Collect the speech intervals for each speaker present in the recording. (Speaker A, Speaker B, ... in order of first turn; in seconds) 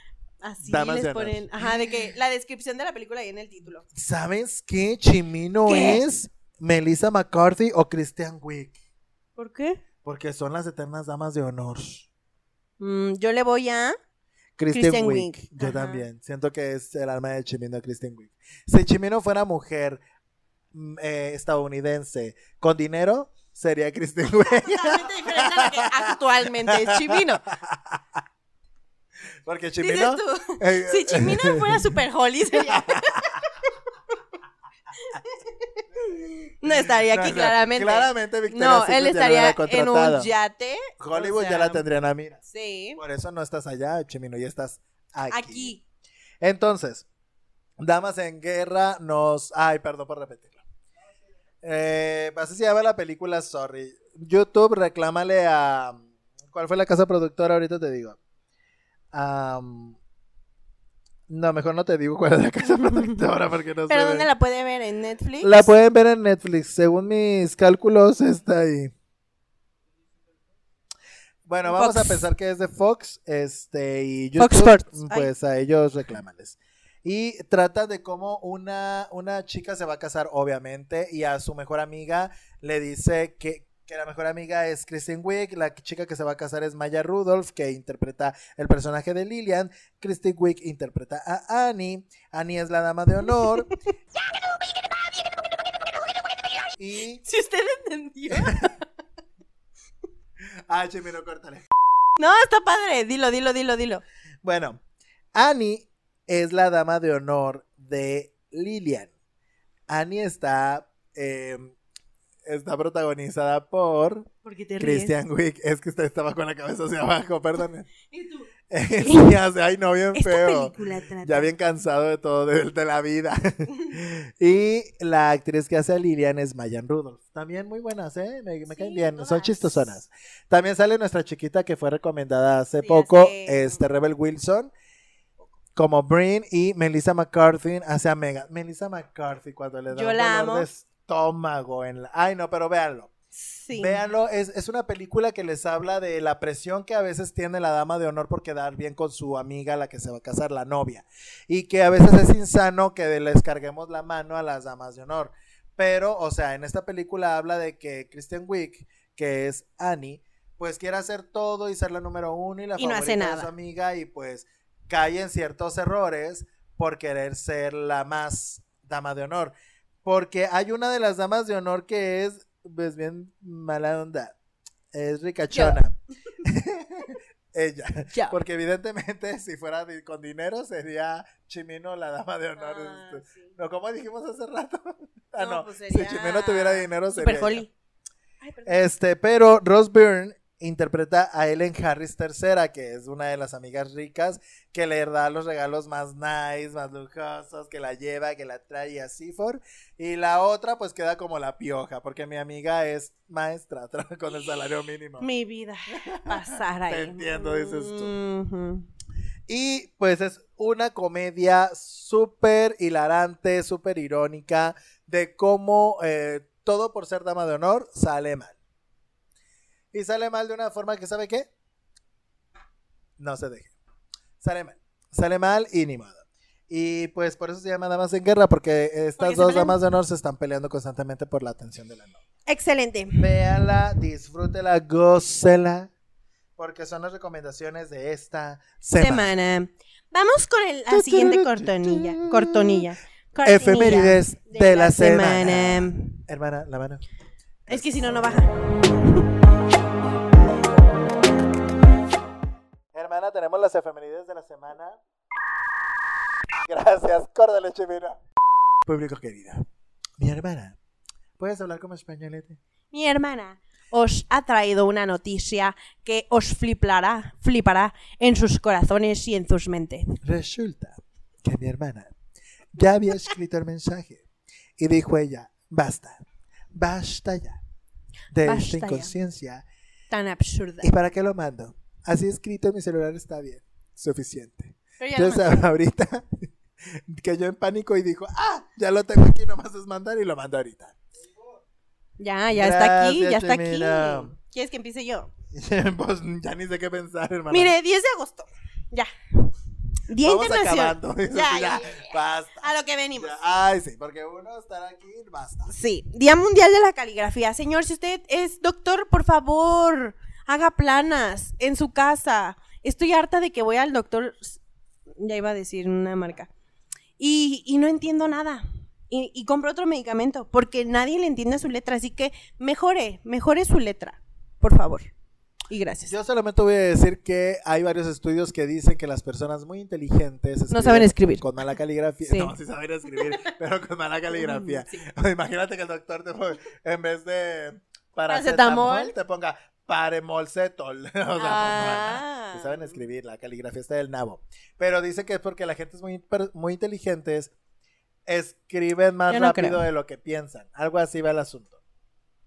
Speaker A: 0.4-3.8, 5.7-6.0, 9.4-9.8, 12.8-14.0, 14.7-16.0, 24.6-27.4, 29.8-33.5, 35.9-41.8, 42.5-43.0, 45.3-45.8, 63.9-65.7, 71.7-72.2, 74.4-75.3, 94.2-96.7, 97.2-98.8, 102.2-104.0, 114.4-115.1, 118.1-118.5, 119.0-119.3, 120.1-121.5, 128.7-129.9, 132.8-133.8, 139.9-140.7, 143.3-144.0, 162.8-163.5, 175.5-175.8, 178.1-178.4, 182.6-183.5, 185.4-187.7, 188.4-188.8, 205.2-208.9, 229.2-229.8, 232.5-233.2, 239.0-246.2, 247.7-249.3, 262.9-270.1, 278.4-279.1, 280.1-280.9, 285.0-285.6, 292.2-295.3, 297.5-299.5, 300.1-303.3, 305.7-314.6, 315.1-316.5, 317.2-325.1, 325.7-326.1, 330.7-331.4, 334.3-335.0, 338.3-339.1, 341.4-343.0, 349.3-349.9
Speaker B: 0.6-1.9, 3.9-8.8, 10.0-12.1, 14.6-20.0, 20.7-28.0, 29.4-31.8, 32.5-33.4, 36.6-40.3, 41.0-42.4, 43.0-45.7, 46.4-47.0, 47.8-50.6, 51.6-58.2, 59.1-60.0, 61.3-64.3, 65.4-68.9, 71.5-93.7, 96.8-97.2, 98.3-98.7, 100.7-101.7, 104.4-104.8, 105.3-109.1, 109.9-111.7, 112.4-117.9, 118.7-134.7, 135.8-143.1, 143.7-169.5, 170.0-174.3, 174.9-187.7, 188.7-205.3, 205.9-208.1, 209.5-218.5, 219.9-221.5, 223.2-223.7, 224.4-232.2, 233.2-235.9, 236.6-239.3, 240.9-242.8, 243.4-247.0, 247.7-248.2, 252.9-255.0, 256.7-258.2, 258.8-259.6, 260.2-260.8, 261.4-262.6, 270.2-272.1, 272.7-274.2, 274.8-276.2, 276.7-277.6, 278.3-279.6, 280.8-290.9, 292.5-294.3, 295.5-297.7, 300.2-305.7, 326.1-347.5, 348.3-351.8